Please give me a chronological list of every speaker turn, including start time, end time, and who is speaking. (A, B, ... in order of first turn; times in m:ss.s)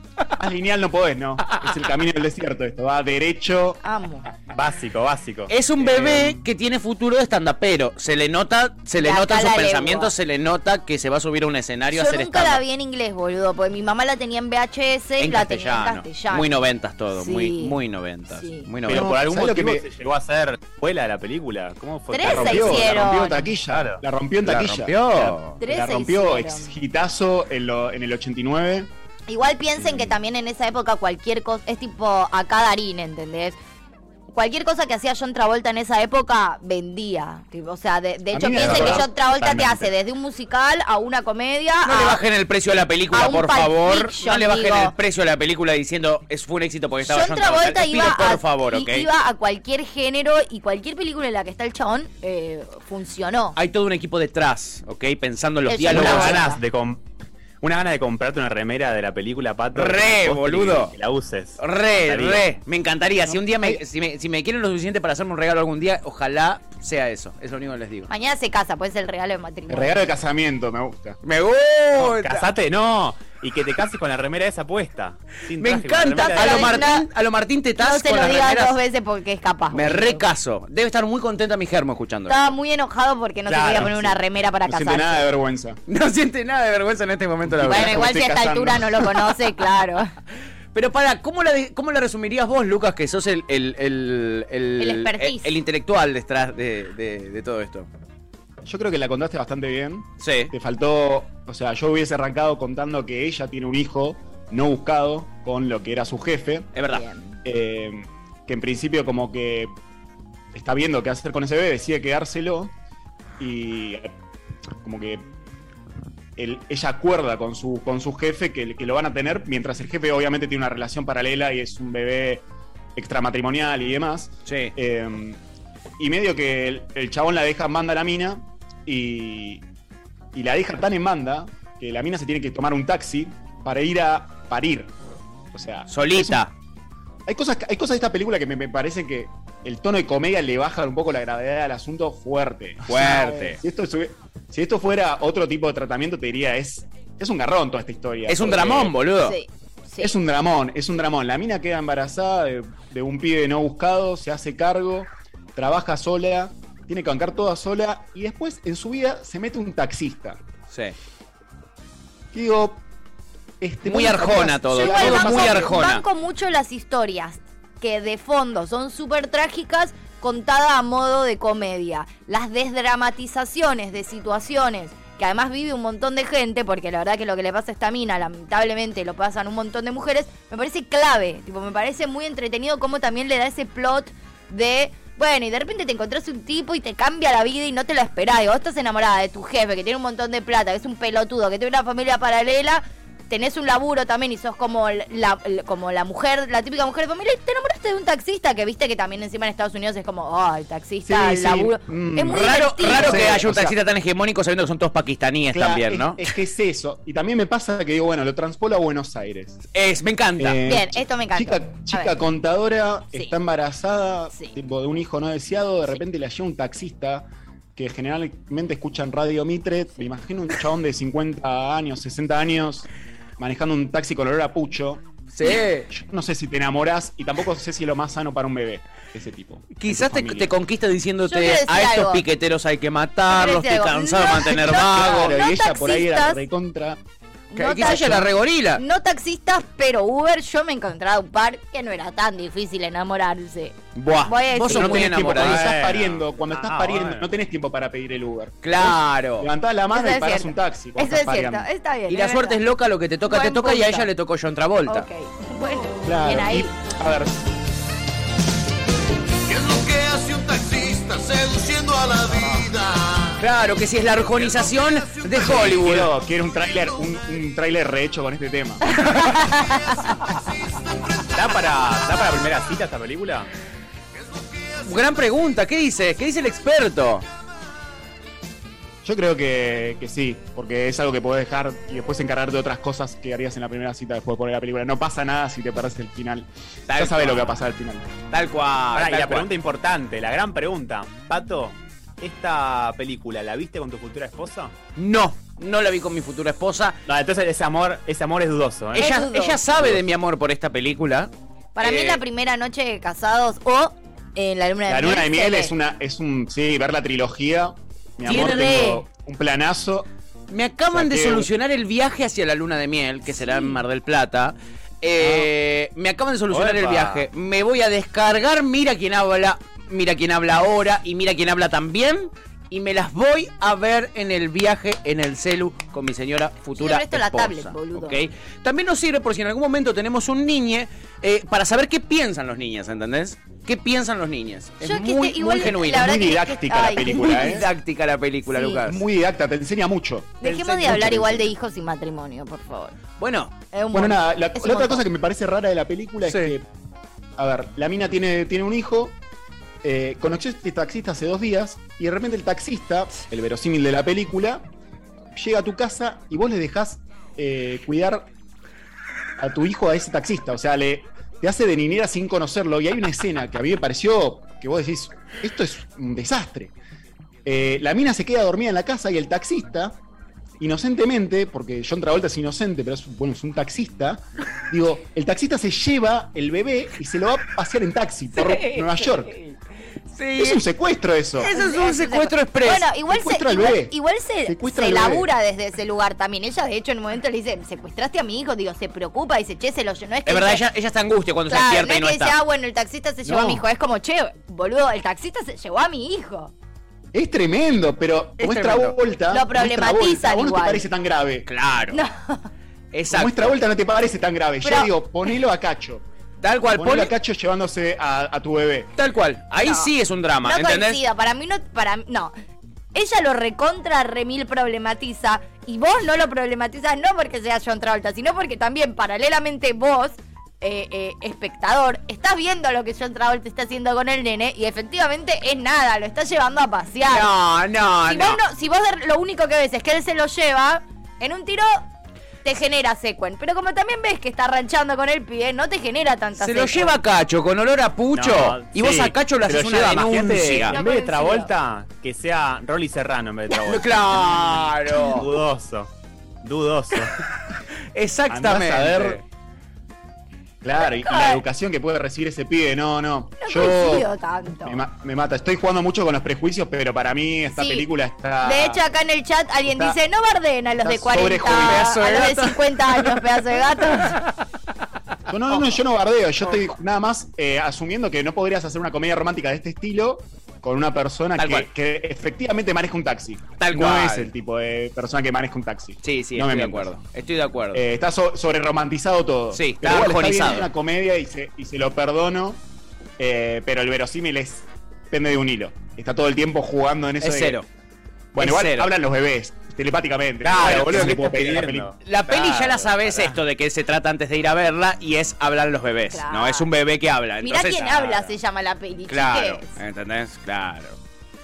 0:00.3-0:03.8 A
0:03.8-0:04.3 B
0:04.5-0:05.5 C
0:05.5-0:12.6 D
0:05.8-0:06.3 A
0:09.0-0:10.1 B
0:11.9-0:16.5 B
0:15.2-0:19.2 D
0:17.1-0:17.8 B
0:18.3-0:18.7 B
0:18.8-0:24.0 C
0:18.8-0:19.8 A
0:22.1-0:23.5 B
0:22.2-0:28.9 A
0:24.4-0:25.6 D
0:25.6-0:26.7 B
0:29.3-0:33.6 B
0:34.3-0:42.2 B
0:38.3-0:39.6 A
0:38.6-0:39.8 C
0:41.8-0:49.1 D
0:43.1-0:44.9 B
0:47.0-0:53.6 B
0:53.5-0:56.5 D
0:55.7-0:56.6 B
0:55.9-0:57.0 C
0:57.6-1:02.4 C
0:59.7-1:00.9 D
1:01.6-1:08.1 D
1:03.2-1:03.8 A
1:08.1-1:10.1 B
1:09.7-1:11.2 A
1:11.2-1:12.5 D
1:12.0-1:16.8 C
1:15.6-1:18.8 D
1:16.2-1:17.0 B
1:17.8-1:20.2 B
1:19.7-1:22.4 D
1:22.3-1:25.2 B
1:23.5-1:25.8 A
1:25.9-1:28.1 D
1:27.5-1:29.0 A
1:27.6-1:30.1 B
1:30.7-1:37.9 D
1:34.8-1:35.5 B
1:38.6-1:46.8 A
1:40.2-1:40.5 D
1:46.7-1:47.0 D
1:46.9-1:47.4 B
1:47.4-1:49.7 A
1:50.5-1:52.7 A
1:53.4-1:54.1 A
1:54.8-1:55.2 A
1:56.4-2:02.4 A
2:03.0-2:05.4 A
2:04.4-2:04.7 D
2:06.0-2:09.6 A
2:10.3-2:14.9 A
2:15.5-2:16.4 A
2:15.9-2:16.5 D
2:17.3-2:29.0 A
2:22.9-2:23.6 D
2:28.3-2:29.4 D
2:29.2-2:30.1 B
2:30.0-2:40.4 A
2:40.7-2:41.0 D
2:42.3-2:42.8 A
2:43.6-2:45.8 A
2:43.8-2:46.0 D
2:44.8-3:23.4 B
3:21.0-3:23.8 A
3:22.3-3:26.3 D
3:25.5-3:29.6 A
3:29.7-3:30.6 D
3:30.4-3:45.0 A
3:30.6-3:32.1 B
3:45.3-3:45.9 D
3:45.9-3:50.5 A
3:49.8-3:55.3 D
3:51.2-3:52.2 B
3:53.3-3:56.4 B
3:54.9-3:57.0 A
3:57.5-4:05.3 B
3:57.6-3:58.8 D
4:03.9-4:05.8 D
4:04.7-4:11.7 A
4:05.3-4:07.3 C
4:08.6-4:09.5 D
4:09.9-4:12.6 B
4:12.1-4:15.1 D
4:13.2-4:14.1 B
4:14.9-4:16.7 B
4:16.0-4:17.4 A
4:19.4-4:23.4 E
4:23.4-4:26.1 D
4:24.4-4:25.4 E
4:25.3-4:29.0 A
4:28.9-4:30.2 B
4:29.0-4:29.3 D
4:31.3-4:33.5 C
4:34.2-4:35.0 E
4:34.8-4:37.2 D
4:39.0-4:48.1 A
4:46.9-4:47.6 D
4:48.3-4:49.5 D
4:48.9-4:54.7 C
4:55.0-4:57.0 D
4:57.1-4:59.1 C
4:58.9-5:02.2 D
4:59.0-4:59.6 B
5:01.8-5:05.7 B
5:04.9-5:10.1 A
5:08.2-5:09.0 D
5:10.5-5:36.2 D
5:10.9-5:11.5 A
5:13.3-5:13.8 B
5:16.5-5:17.3 C
5:26.8-5:28.2 B
5:34.8-5:37.6 B
5:35.6-5:37.7 A
5:37.0-5:39.0 D
5:38.5-5:38.8 B
5:38.7-5:41.5 A
5:40.4-5:43.0 B
5:43.2-5:43.5 D
5:43.7-5:45.0 B
5:43.9-5:46.6 A
5:46.2-5:46.5 D
5:47.4-5:49.2 A
5:49.8-5:54.6 A
5:55.3-5:58.3 A
5:59.4-6:06.7 A
6:07.4-6:10.0 A
6:10.6-6:19.4 A
6:18.4-6:19.5 D
6:20.1-6:20.6 D
6:20.4-6:21.5 A
6:21.4-6:22.9 D
6:21.5-6:30.6 B
6:23.1-6:25.3 A
6:30.2-6:32.4 D
6:31.5-6:36.5 B
6:33.2-6:33.6 A
6:37.1-6:41.5 A
6:38.4-6:39.0 D
6:39.3-6:40.9 B
6:41.5-6:42.0 D
6:41.9-6:42.5 B
6:42.9-6:43.6 D
6:43.1-6:46.0 A
6:44.6-6:44.9 B
6:46.4-6:47.1 D
6:46.7-6:48.9 A
6:49.0-6:51.0 D
6:49.6-6:49.9 B
6:50.4-6:52.3 B
6:52.9-7:07.3 B
7:07.1-7:08.4 D
7:08.1-7:11.9 B
7:12.4-7:17.0 B
7:16.4-7:20.8 D
7:18.1-7:25.9 C
7:20.7-7:21.5 B
7:23.5-7:25.3 D
7:26.4-7:27.2 C
7:27.9-7:29.2 D
7:28.3-7:29.2 A
7:30.6-7:34.1 A
7:30.8-7:31.4 B
7:33.4-7:34.8 B
7:34.6-7:38.8 A
7:37.5-7:37.9 B
7:38.4-7:44.2 B
7:39.7-7:40.0 A
7:40.8-7:42.0 A
7:41.5-7:44.2 D
7:45.3-7:56.9 A
7:51.4-7:51.7 D
7:53.6-7:54.3 D
7:56.0-7:57.8 D
7:57.7-8:02.6 A
7:59.5-8:00.7 D
8:03.2-8:07.6 A
8:07.2-8:07.6 D
8:08.3-8:11.9 A
8:08.4-8:08.9 D
8:10.4-8:11.3 D
8:10.5-8:13.4 C
8:12.0-8:18.3 D
8:16.1-8:16.7 B
8:17.4-8:19.8 B
8:19.1-8:21.0 D